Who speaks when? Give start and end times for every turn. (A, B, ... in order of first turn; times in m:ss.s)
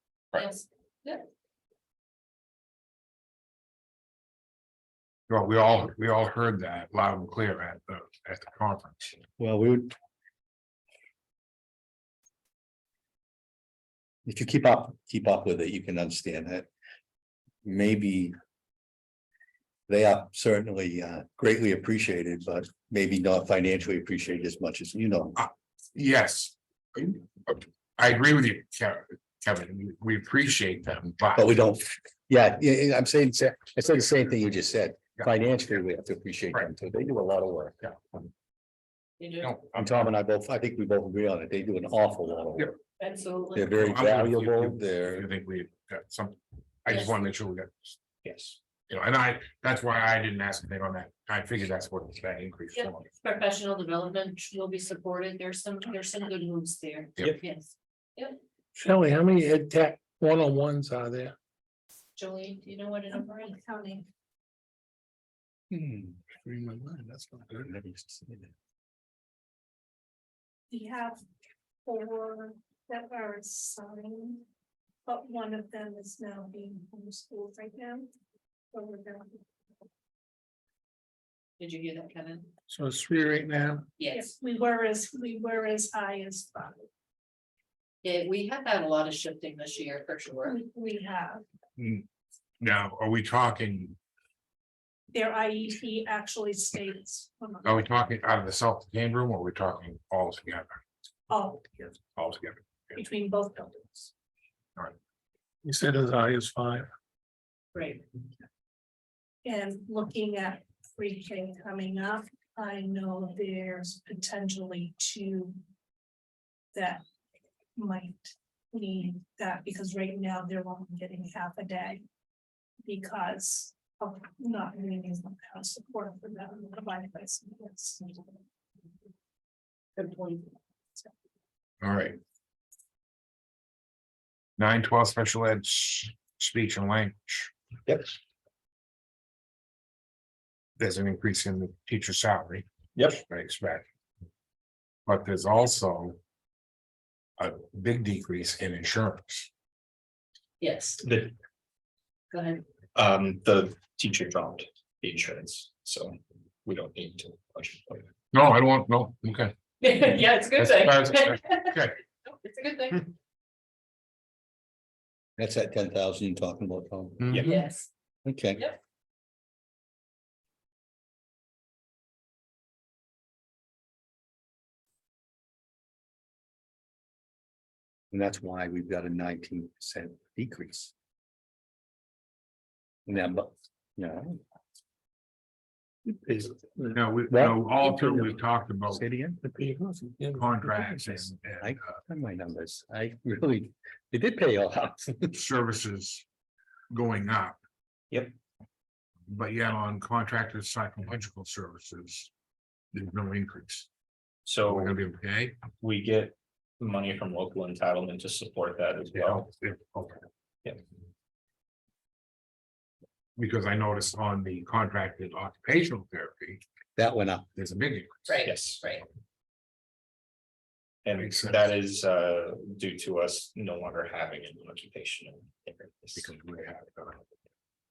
0:00.3-0:01.2 A
0:05.3-0:09.2 B
0:09.4-0:09.9 C
0:14.2-0:16.7 C
0:17.6-0:18.3 C
0:19.9-0:25.4 C
0:25.4-0:31.5 B
0:31.4-0:37.8 C
0:39.2-0:39.6 A
0:39.4-0:40.1 B
0:39.7-0:42.8 C
0:43.0-0:44.0 A
0:43.5-0:45.3 C
0:43.8-0:48.0 B
0:46.9-0:47.2 A
0:48.2-0:48.6 D
0:48.9-0:53.1 B
0:52.7-0:58.4 A
0:58.8-1:01.3 E
1:02.2-1:03.6 A
1:03.1-1:04.1 F
1:05.7-1:06.2 C
1:06.3-1:07.6 E
1:07.5-1:08.5 C
1:10.7-1:11.2 F
1:11.8-1:14.4 F
1:15.0-1:18.1 F
1:18.7-1:19.4 F
1:21.6-1:22.5 A
1:22.7-1:23.8 E
1:24.0-1:24.3 A
1:24.1-1:26.8 F
1:28.0-1:30.6 A
1:30.4-1:31.4 F
1:31.8-1:32.0 B
1:32.6-1:34.0 B
1:35.1-1:37.9 F
1:37.6-1:40.8 B
1:41.3-1:41.9 F
1:42.1-1:43.0 B
1:43.0-1:44.1 F
1:45.6-1:46.9 E
1:47.7-1:48.0 A
1:49.4-1:55.6 F
1:56.7-1:57.0 F
1:57.8-2:02.0 F
2:02.8-2:08.2 F
2:10.0-2:10.5 A
2:11.8-2:12.2 B
2:14.6-2:17.5 B
2:17.9-2:18.1 D
2:20.8-2:22.6 B
2:23.0-2:23.2 D
2:23.2-2:23.8 B
2:25.0-2:26.2 B
2:27.4-2:29.5 B
2:30.6-2:31.0 A
2:31.0-2:31.3 D
2:32.3-2:32.6 A
2:32.9-2:38.1 D
2:38.3-2:39.6 B
2:39.8-2:43.1 A
2:40.6-2:42.0 B
2:45.4-2:47.4 C
2:47.2-2:47.5 B
2:47.4-2:47.9 A
2:48.2-2:48.6 C
2:58.1-3:00.9 C
3:03.1-3:04.4 C
3:06.1-3:07.0 E
3:06.9-3:09.0 B
3:07.3-3:09.4 C
3:09.4-3:11.3 E
3:10.3-3:11.9 B
3:11.6-3:15.3 C
3:15.3-3:16.2 B
3:16.9-3:17.6 B
3:19.3-3:22.3 B
3:22.9-3:23.9 B
3:24.4-3:25.0 D
3:24.6-3:25.6 B
3:25.7-3:29.5 D
3:29.1-3:30.2 B
3:33.4-3:36.6 B
3:37.0-3:37.4 C
3:37.5-3:38.2 B
3:38.3-3:39.1 A
3:38.4-3:38.8 D
3:41.0-3:46.3 D
3:41.2-3:41.7 B
3:46.1-3:47.2 B